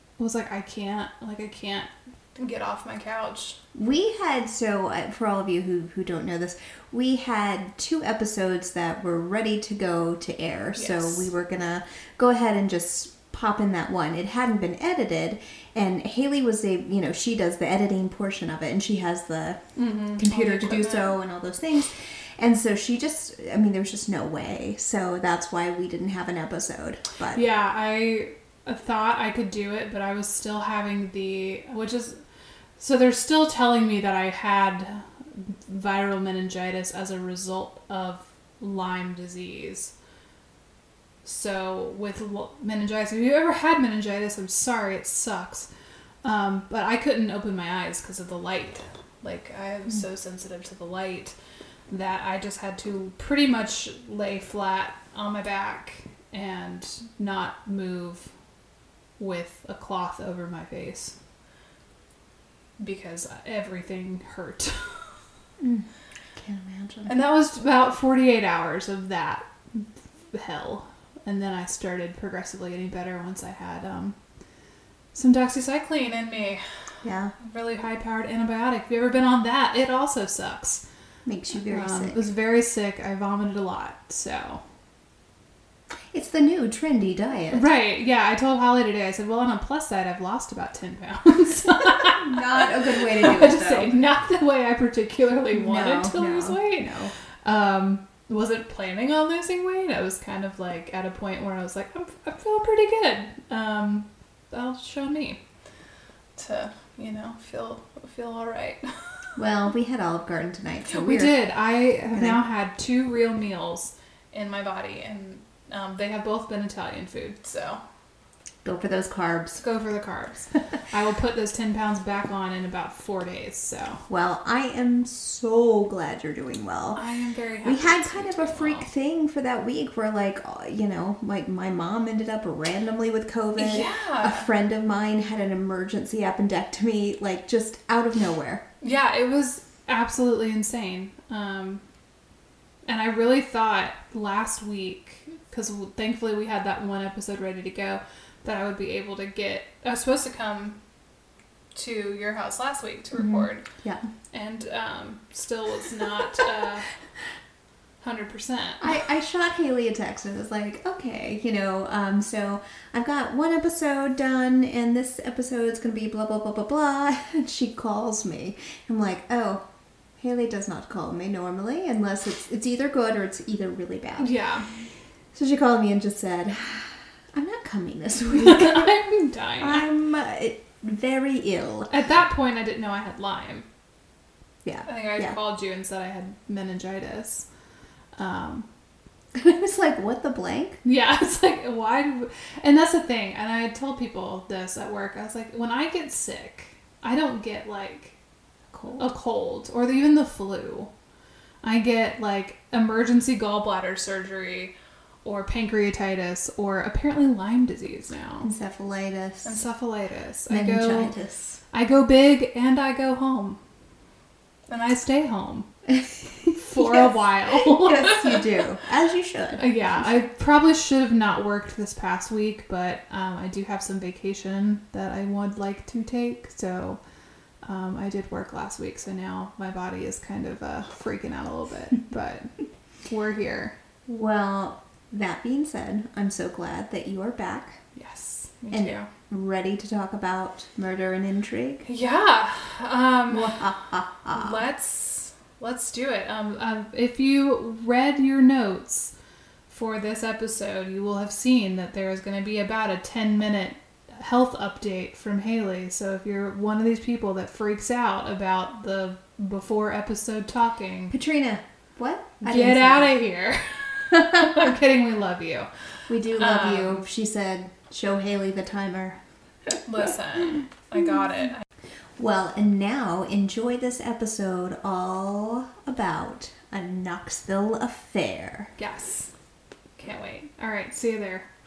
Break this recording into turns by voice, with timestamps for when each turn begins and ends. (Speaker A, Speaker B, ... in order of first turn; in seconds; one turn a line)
Speaker A: 0.2-3.6
Speaker B: 3.8-19.6
Speaker A: 10.8-11.3
Speaker A: 19.8-21.2
Speaker B: 20.2-27.4
Speaker A: 27.3-32.2
Speaker A: 32.8-39.9
Speaker A: 41.2-45.7
Speaker A: 46.2-51.3
Speaker A: 51.9-58.3
Speaker A: 59.2-61.1
Speaker A: 62.8-65.1
Speaker B: 65.6-67.2
Speaker A: 67.1-74.2
Speaker A: 75.2-76.6
Speaker B: 77.0-77.3
Speaker A: 77.4-80.8
Speaker B: 81.3-82.2
Speaker A: 81.7-84.6
Speaker B: 86.1-87.7
Speaker A: 87.5-105.4
Speaker B: 91.8-94.0
Speaker B: 95.5-97.1
Speaker A: 106.4-108.8
Speaker B: 109.4-111.4
Speaker A: 110.9-117.8
Speaker B: 112.1-112.4
Speaker B: 118.6-119.6
Speaker A: 119.6-124.0
Speaker B: 124.1-127.0
Speaker A: 126.9-128.9
Speaker B: 127.6-138.6
Speaker A: 133.6-134.5
Speaker A: 138.8-141.8
Speaker A: 142.9-150.8
Speaker A: 151.8-153.7
Speaker B: 153.2-154.1
Speaker A: 154.3-156.9
Speaker A: 158.0-158.9
Speaker B: 158.8-169.6
Speaker B: 170.2-174.3
Speaker A: 174.2-174.7
Speaker B: 175.3-178.9
Speaker A: 178.3-179.8
Speaker B: 179.6-181.9
Speaker A: 181.9-183.7
Speaker B: 184.6-185.4
Speaker A: 184.9-187.5
Speaker A: 188.2-188.7
Speaker B: 189.3-190.8
Speaker A: 190.8-198.2
Speaker B: 198.7-199.1
Speaker A: 199.0-200.9
Speaker A: 201.6-208.5
Speaker B: 208.4-209.6
Speaker A: 209.4-211.1
Speaker B: 210.5-211.6
Speaker A: 211.7-213.6
Speaker A: 214.7-215.7
Speaker A: 216.5-218.5
Speaker B: 216.8-219.7
Speaker A: 219.6-227.0
Speaker A: 227.6-232.5
Speaker A: 233.1-233.8
Speaker B: 234.1-237.8
Speaker A: 237.9-239.1
Speaker B: 238.7-241.8
Speaker A: 241.8-243.7
Speaker B: 243.3-244.6
Speaker A: 244.3-249.1
Speaker A: 249.7-261.1
Speaker B: 261.1-263.2
Speaker A: 262.4-265.7
Speaker B: 266.1-269.2
Speaker A: 266.4-267.0
Speaker A: 269.9-271.6
Speaker B: 272.2-278.7
Speaker A: 278.8-279.3
Speaker A: 280.0-281.5